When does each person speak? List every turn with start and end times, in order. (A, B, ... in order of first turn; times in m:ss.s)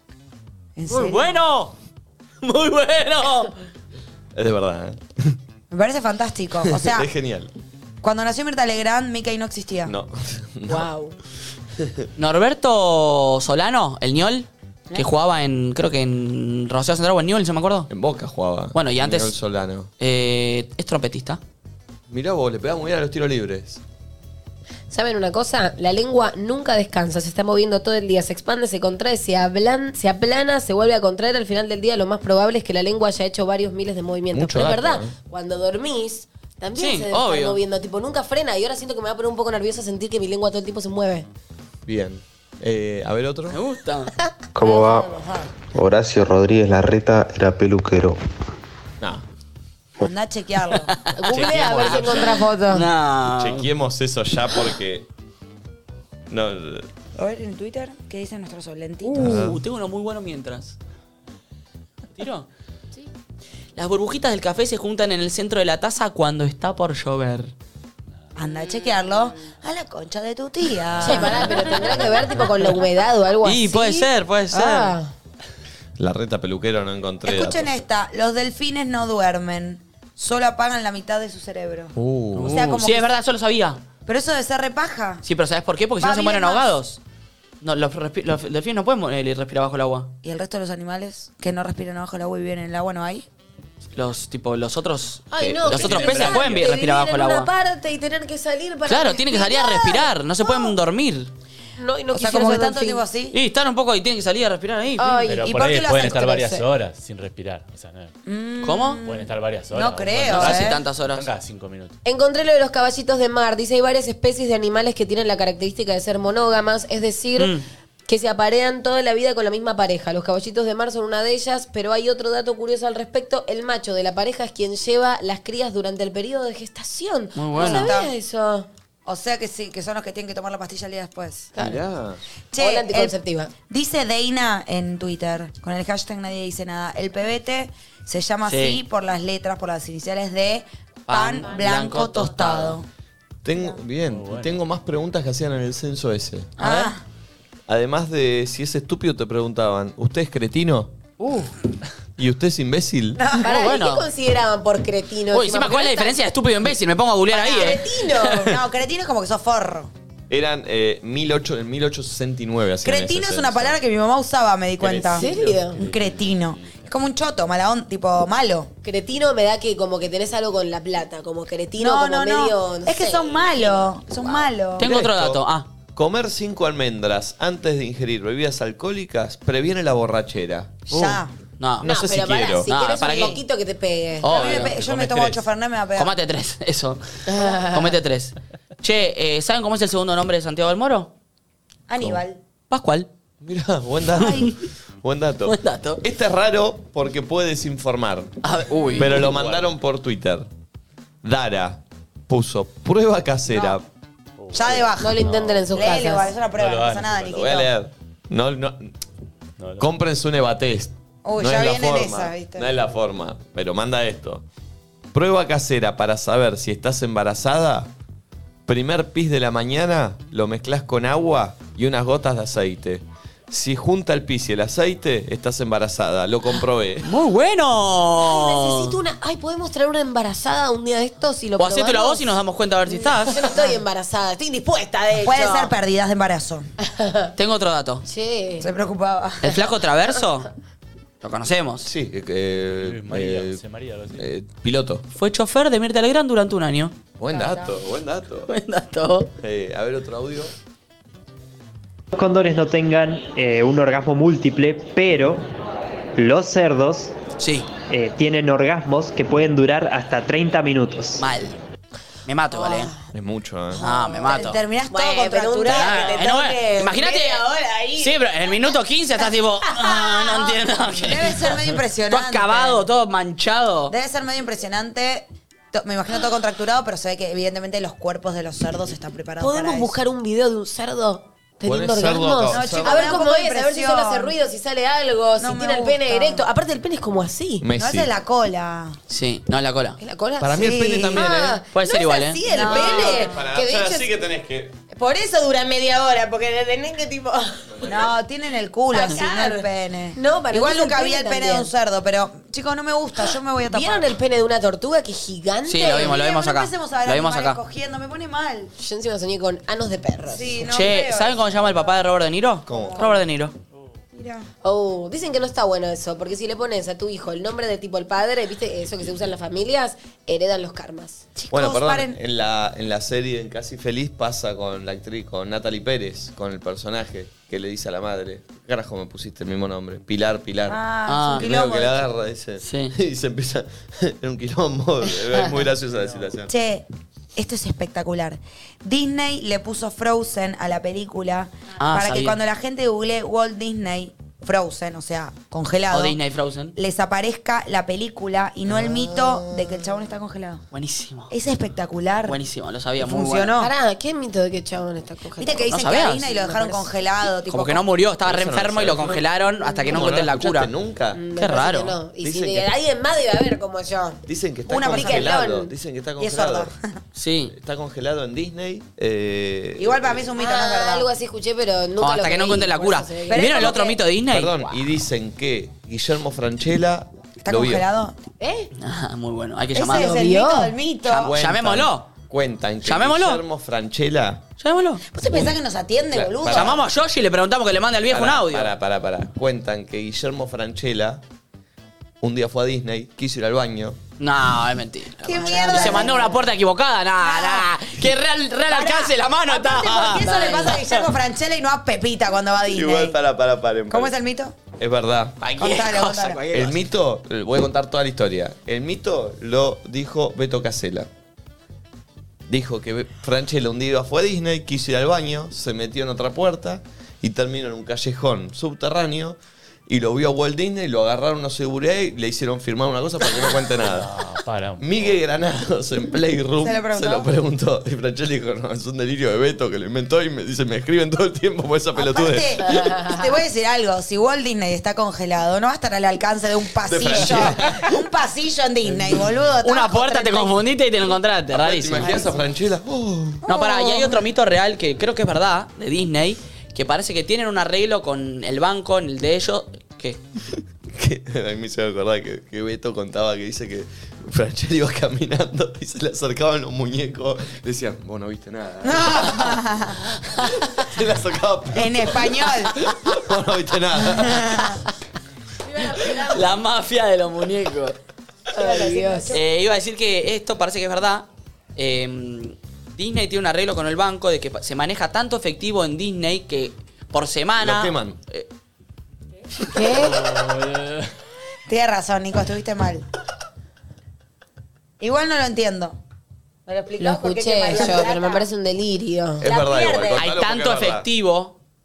0:00.8-0:01.3 A
0:00.9-0:01.7 B
0:02.4-0:03.5 B
0:04.3-0:05.4 C
0:05.7-0:07.1 A
0:06.6-0:07.5 C
0:08.0-0:09.9 A
0:09.8-0:10.9 C
0:10.7-0:11.2 D
0:12.2-0:17.9 B
0:17.9-0:19.9 C
0:18.7-0:19.3 B
0:20.0-0:21.4 B
0:22.1-0:23.8 C
0:24.9-0:41.2 D
0:34.3-0:35.1 C
0:36.7-0:37.6 B
0:41.8-0:43.6 C
0:43.5-0:44.1 B
0:44.2-0:45.3 D
0:44.5-0:45.1 E
0:44.7-0:45.5 A
0:45.7-0:48.2 E
0:50.0-0:51.0 A
0:50.9-0:53.6 B
0:51.2-0:52.8 D
0:51.4-0:51.8 C
0:51.8-0:52.7 A
0:53.3-0:55.1 C
0:56.3-0:56.9 C
0:57.2-0:59.4 A
0:59.0-1:00.8 B
0:59.2-0:59.6 C
1:02.2-1:02.5 B
1:03.8-1:07.5 B
1:08.4-1:12.0 A
1:11.0-1:15.1 D
1:13.4-1:14.9 B
1:16.0-1:17.8 C
1:17.2-1:21.9 A
1:22.0-1:22.6 C
1:22.3-1:23.8 B
1:22.5-1:23.1 A
1:24.0-1:25.2 A
1:25.2-1:27.0 B
1:26.0-1:26.8 A
1:27.6-1:30.1 B
1:30.2-1:33.2 A
1:34.0-1:37.5 B
1:35.3-1:40.7 D
1:35.6-1:36.7 F
1:38.8-1:41.3 B
1:41.8-1:43.0 D
1:42.1-1:43.4 A
1:43.3-1:45.2 B
1:45.0-1:46.6 D
1:45.3-1:48.1 F
1:45.4-1:46.5 A
1:48.2-1:50.8 A
1:48.6-1:49.0 B
1:49.0-1:52.0 F
1:50.3-1:51.3 B
1:52.0-1:57.6 D
1:57.4-1:57.6 B
1:58.1-2:08.7 D
2:07.3-2:07.9 B
2:07.6-2:08.1 A
2:09.0-2:11.5 A
2:11.6-2:12.2 C
2:12.5-2:13.1 A
2:12.6-2:13.5 D
2:13.7-2:22.9 A
2:18.4-2:18.8 B
2:21.1-2:22.8 B
2:23.4-2:26.5 C
2:24.0-2:24.6 F
2:26.6-2:27.0 A
2:26.6-2:26.9 B
2:27.7-2:30.9 C
2:32.2-2:33.2 C
2:33.2-2:33.7 A
2:33.4-2:36.2 D
2:33.4-2:34.1 B
2:35.3-2:37.8 B
2:37.3-2:39.9 A
2:37.4-2:38.5 D
2:40.3-2:43.8 C
2:42.8-2:48.7 A
2:44.8-2:45.6 C
2:45.1-2:45.8 D
2:45.6-2:46.9 F
2:48.8-2:54.5 D
2:51.8-2:54.9 A
2:54.8-2:55.4 C
2:54.8-2:55.7 B
2:55.9-3:00.9 C
3:00.9-3:01.3 A
3:00.9-3:01.9 B
3:01.8-3:02.7 C
3:01.8-3:04.3 D
3:02.6-3:03.4 B
3:04.2-3:04.8 B
3:04.2-3:06.1 A
3:04.5-3:05.4 F
3:06.0-3:11.1 B
3:07.3-3:08.0 D
3:11.9-3:12.4 A
3:12.7-3:13.1 B
3:13.4-3:18.4 C
3:14.2-3:14.5 A
3:15.5-3:16.0 B
3:18.4-3:19.3 B
3:19.0-3:20.5 C
3:19.0-3:19.7 F
3:21.2-3:23.8 C
3:23.5-3:23.8 A
3:24.4-3:27.4 F
3:24.5-3:27.7 A
3:24.6-3:24.9 C
3:25.0-3:26.3 D
3:27.3-3:28.9 C
3:29.6-3:29.9 F
3:29.8-3:34.4 C
3:31.2-3:32.7 A
3:35.1-3:37.9 C
3:38.7-3:47.1 C
3:47.0-3:48.9 B
3:48.2-3:55.7 D
3:51.6-3:53.4 B
3:55.2-3:56.7 A
3:56.8-3:57.3 D
3:57.4-3:58.0 B
3:58.0-3:58.7 D
3:58.6-3:59.6 A
3:59.4-4:00.5 B
4:01.2-4:01.9 B
4:01.8-4:03.6 C
4:02.8-4:04.3 F
4:04.1-4:05.0 C
4:05.1-4:06.9 B
4:07.2-4:08.5 C
4:07.3-4:07.7 A
4:08.5-4:09.3 B
4:09.4-4:10.5 C
4:12.1-4:15.4 G
4:16.2-4:17.1 G
4:17.4-4:17.7 B
4:17.9-4:21.2 G
4:21.2-4:21.6 B
4:22.2-4:22.9 B
4:22.5-4:23.0 D
4:23.1-4:23.8 C
4:23.8-4:28.7 D
4:23.8-4:24.6 B
4:24.1-4:26.5 A
4:25.6-4:27.4 B
4:28.0-4:33.9 B
4:29.7-4:30.5 D
4:29.8-4:32.9 A
4:33.9-4:40.0 A
4:39.4-4:47.6 D
4:41.6-4:43.2 C
4:42.5-4:44.3 A
4:45.4-4:46.5 A
4:47.6-4:48.1 C
4:47.8-4:49.0 A
4:49.1-4:50.0 B
4:50.0-4:54.1 D
4:50.4-4:51.6 C
4:50.5-4:51.3 A
4:51.7-4:52.4 B
4:52.4-4:53.4 A
4:52.5-4:54.8 C
4:54.9-4:57.9 D
4:57.8-4:58.0 C
4:57.8-5:04.1 A
4:58.9-5:01.7 D
5:03.7-5:06.2 D
5:05.6-5:07.6 B
5:05.8-5:08.7 A
5:08.8-5:10.6 D
5:10.3-5:11.9 A
5:10.6-5:13.5 B
5:12.7-5:13.0 C
5:12.7-5:13.2 A
5:14.1-5:14.5 A
5:14.6-5:21.2 D
5:21.4-5:22.2 A
5:21.5-5:30.8 C
5:30.7-5:32.0 A
5:31.1-5:31.4 B
5:31.3-5:36.5 C
5:32.6-5:32.9 B
5:36.5-5:46.2 A
5:41.8-5:42.4 B
5:45.9-5:46.8 B
5:46.8-5:50.6 A
5:49.1-5:49.5 D
5:50.7-5:51.3 B
5:51.3-5:52.4 A
5:52.3-5:53.5 B
5:53.0-5:53.7 A
5:53.5-5:56.9 D
5:55.4-5:57.8 A
5:55.7-5:56.2 B
5:57.4-6:00.7 B
5:58.2-5:59.2 C
5:59.6-5:59.9 D
5:59.9-6:01.2 C
6:01.1-6:04.2 D
6:01.4-6:02.0 B
6:02.2-6:02.7 C
6:04.3-6:06.7 C
6:04.7-6:05.4 A
6:04.8-6:05.7 D
6:06.2-6:06.8 A
6:07.2-6:07.5 B
6:07.5-6:10.2 C
6:09.8-6:11.1 A
6:10.3-6:13.8 D
6:12.0-6:14.8 B
6:13.3-6:14.0 A
6:14.3-6:17.8 C
6:17.4-6:18.2 A
6:18.4-6:18.7 D
6:18.8-6:20.2 B
6:19.7-6:21.3 A
6:19.9-6:20.7 D
6:21.1-6:22.1 B
6:21.2-6:24.4 C
6:22.8-6:23.4 B
6:24.6-6:25.0 B
6:25.1-6:26.8 A
6:25.3-6:25.5 C
6:26.1-6:26.8 C
6:26.5-6:28.7 B
6:28.1-6:31.2 C
6:32.2-6:34.0 C
6:34.2-6:41.0 B
6:35.2-6:36.4 A
6:35.5-6:36.3 D
6:37.2-6:37.8 A
6:38.7-6:43.2 A
6:40.1-6:40.8 D
6:42.7-6:44.1 C
6:43.9-6:44.6 A
6:44.8-6:45.4 C
6:45.4-6:46.8 B
6:45.6-6:46.4 A
6:46.5-6:51.1 C
6:52.5-7:04.1 C
7:03.8-7:05.1 F
7:04.8-7:12.9 C
7:06.6-7:07.3 A
7:11.9-7:20.6 A
7:12.6-7:13.3 D
7:16.8-7:17.9 C
7:19.6-7:22.3 B
7:21.5-7:23.4 C
7:23.4-7:24.2 A
7:23.5-7:30.2 B
7:30.9-7:39.7 C
7:38.8-7:40.0 A
7:40.6-7:44.8 C
7:41.7-7:42.8 A
7:44.1-7:44.8 A
7:46.0-7:48.0 B
7:46.1-7:46.3 D
7:48.5-7:49.3 D
7:48.5-7:49.4 A
7:49.3-7:58.5 B
7:57.6-7:58.2 C
7:59.7-8:00.3 D
7:59.9-8:01.0 F
8:01.7-8:03.0 A
8:05.0-8:06.0 A
8:06.7-8:08.5 A
8:06.7-8:09.5 D
8:09.4-8:11.0 C
8:09.4-8:10.2 A
8:10.2-8:11.5 B